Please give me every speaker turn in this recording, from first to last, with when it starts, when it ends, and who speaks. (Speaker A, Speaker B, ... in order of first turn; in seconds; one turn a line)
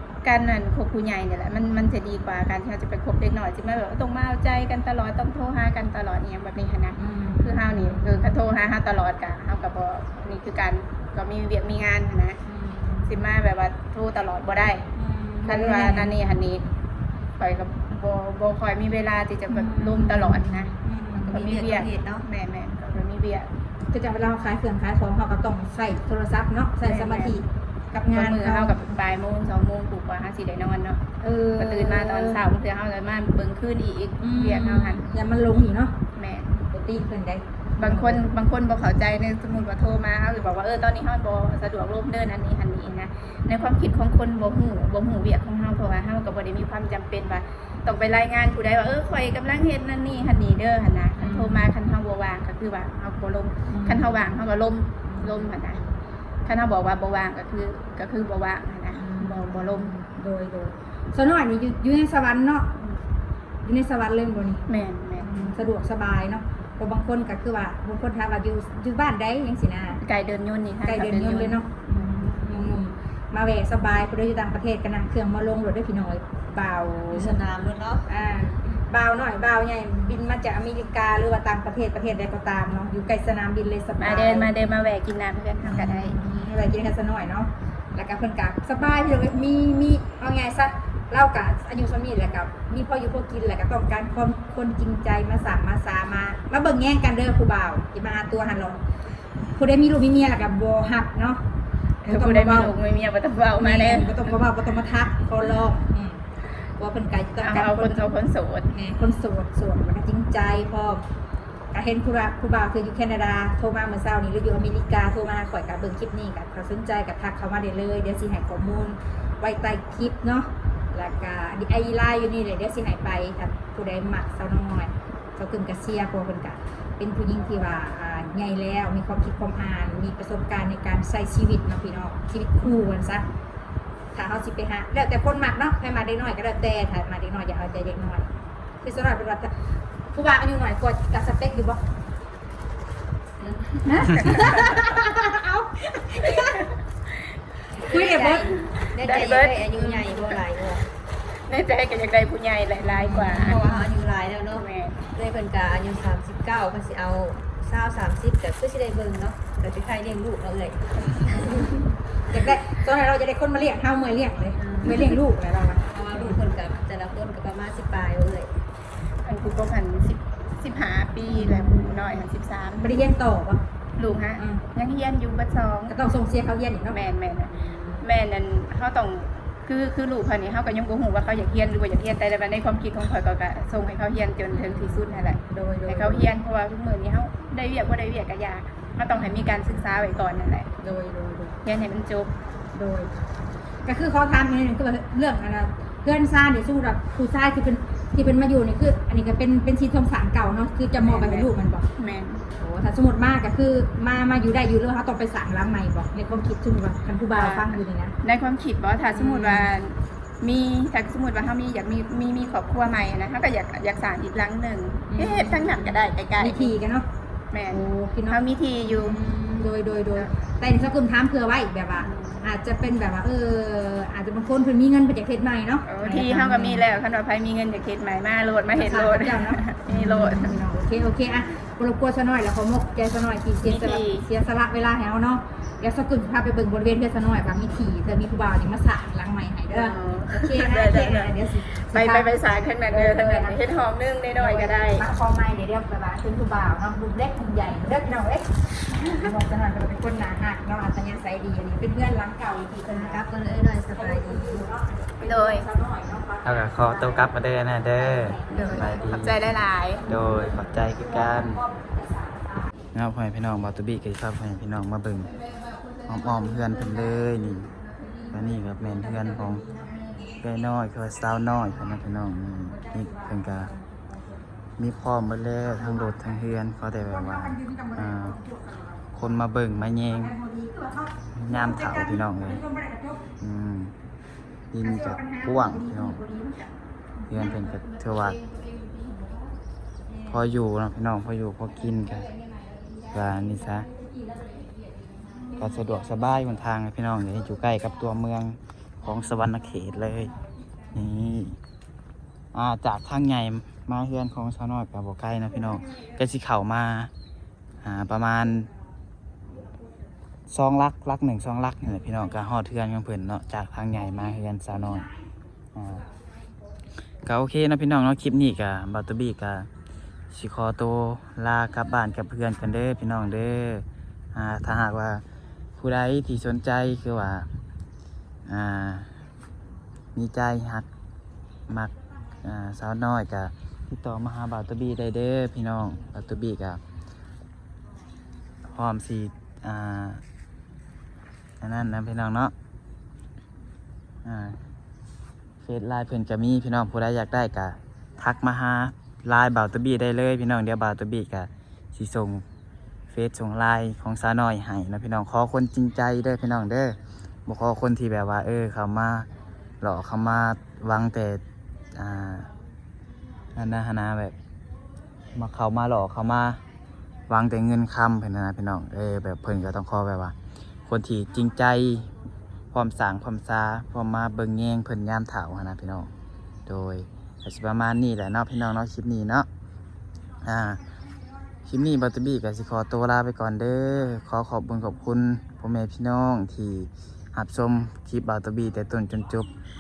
Speaker A: 0.2-12.4
Speaker B: 7.0-8.2
Speaker B: 12.5-13.2
Speaker A: 13.1-14.9
Speaker B: 15.0-16.1
Speaker A: 15.4-16.7
Speaker A: 17.4-20.7
Speaker B: 19.5-21.4
Speaker C: 21.2-22.2
Speaker A: 21.3-23.5
Speaker B: 23.9-28.8
Speaker A: 26.9-27.4
Speaker A: 28.1-31.0
Speaker B: 31.2-32.4
Speaker A: 31.6-35.0
Speaker B: 34.2-36.0
Speaker A: 36.1-36.7
Speaker B: 36.7-38.2
Speaker A: 37.8-55.8
Speaker B: 51.2-51.7
Speaker B: 53.7-54.3
Speaker B: 55.0-56.0
Speaker A: 56.5-59.9
Speaker B: 58.9-62.8
Speaker B: 63.6-64.7
Speaker A: 64.7-65.5
Speaker B: 65.2-70.0
Speaker A: 70.0-72.2
Speaker B: 70.8-77.4
Speaker C: 77.1-78.1
Speaker B: 78.1-84.5
Speaker A: 84.0-86.2
Speaker B: 85.6-98.8
Speaker B: 99.5-101.4
Speaker A: 102.0-104.3
Speaker B: 102.1-102.7
Speaker B: 103.6-106.2
Speaker B: 106.8-108.1
Speaker A: 107.4-108.7
Speaker B: 108.7-111.0
Speaker B: 111.7-133.2
Speaker B: 134.1-138.3
Speaker B: 138.8-139.5
Speaker B: 140.1-141.8
Speaker B: 143.8-146.7
Speaker A: 144.2-144.8
Speaker A: 146.2-146.7
Speaker C: 147.8-150.9
Speaker B: 147.9-148.6
Speaker A: 148.1-150.4
Speaker A: 151.5-153.8
Speaker B: 152.9-153.8
Speaker C: 153.0-161.8
Speaker A: 154.5-155.0
Speaker B: 162.3-166.4
Speaker C: 164.6-165.2
Speaker C: 165.9-168.5
Speaker A: 169.2-173.0
Speaker B: 171.3-172.1
Speaker B: 172.8-173.6
Speaker A: 174.0-175.9
Speaker B: 174.4-174.6
Speaker B: 175.9-177.0
Speaker A: 176.9-190.7
Speaker B: 177.5-178.1
Speaker B: 184.5-186.3
Speaker B: 189.1-189.8
Speaker B: 190.8-191.6
Speaker A: 191.6-192.3
Speaker B: 192.7-193.1
Speaker B: 193.8-201.9
Speaker A: 201.0-202.4
Speaker B: 202.6-208.1
Speaker A: 207.3-216.7
Speaker B: 209.1-209.7
Speaker B: 215.1-217.1
Speaker A: 217.5-220.3
Speaker B: 217.7-226.8
Speaker A: 222.0-222.4
Speaker A: 225.9-230.7
Speaker B: 228.7-242.3
Speaker A: 233.6-234.3
Speaker A: 239.7-245.1
Speaker B: 242.9-243.6
Speaker B: 244.4-253.2
Speaker C: 252.8-254.7
Speaker B: 253.9-257.4
Speaker A: 255.2-255.7
Speaker D: 256.4-259.4
Speaker B: 257.9-259.5
Speaker A: 258.5-260.1
Speaker D: 260.1-261.6
Speaker B: 260.1-262.7
Speaker D: 262.9-265.3
Speaker D: 266.1-267.7
Speaker D: 268.3-269.6
Speaker B: 268.9-270.1
Speaker D: 270.4-273.7
Speaker B: 272.7-274.4
Speaker D: 274.8-278.4
Speaker B: 275.8-276.2
Speaker B: 277.1-279.3
Speaker D: 279.1-280.4
Speaker B: 280.1-283.3
Speaker D: 281.4-282.6
Speaker D: 283.4-283.9
Speaker D: 284.7-286.2
Speaker B: 284.8-286.8
Speaker D: 287.3-288.4
Speaker B: 287.4-287.6
Speaker B: 288.6-289.3
Speaker D: 290.3-292.3
Speaker D: 293.1-293.9
Speaker D: 295.6-300.4
Speaker D: 300.9-301.6
Speaker D: 302.5-307.1
Speaker D: 307.8-308.7
Speaker D: 310.5-315.1
Speaker D: 315.8-316.1
Speaker D: 317.2-319.7
Speaker D: 320.3-325.2
Speaker D: 325.8-327.5
Speaker D: 328.5-329.1
Speaker D: 330.1-330.9
Speaker D: 331.7-336.8
Speaker D: 338.7-340.2
Speaker D: 341.6-342.5
Speaker D: 344.2-344.6
Speaker D: 345.6-352.4
Speaker D: 353.1-356.9
Speaker D: 357.5-359.3
Speaker D: 359.8-361.4
Speaker D: 361.9-362.5
Speaker D: 363.6-364.4
Speaker D: 365.3-366.6
Speaker D: 367.3-370.4
Speaker D: 370.9-372.1
Speaker D: 372.7-376.1
Speaker D: 376.7-379.5
Speaker D: 380.4-380.8
Speaker D: 381.7-389.5